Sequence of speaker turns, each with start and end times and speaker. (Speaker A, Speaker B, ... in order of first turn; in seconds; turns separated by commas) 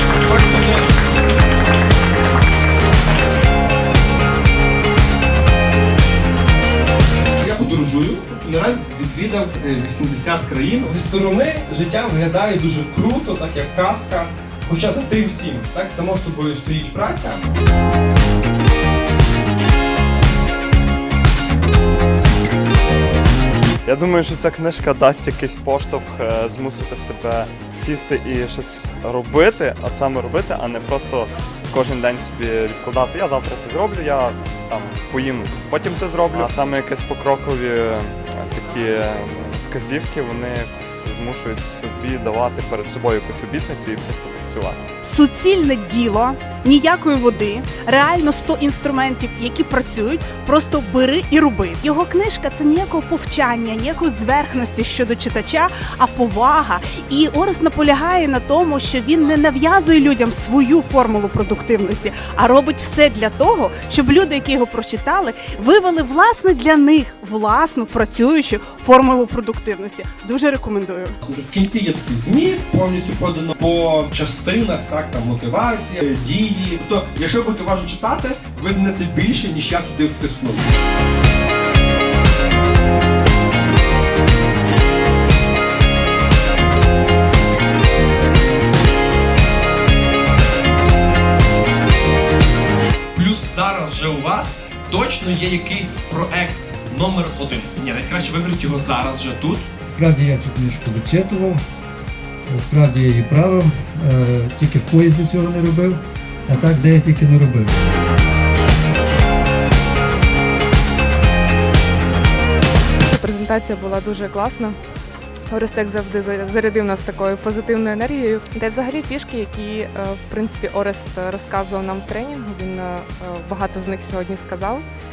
Speaker A: 0.2-0.8, Speaker A: 7.4-17.5, Speaker B: 23.9-44.9, Speaker C: 45.0-71.2, Speaker A: 71.2-80.7, Speaker A: 93.1-99.7, Speaker D: 99.8-101.6, Speaker D: 102.5-107.7, Speaker E: 113.0-114.8, Speaker E: 115.5-124.8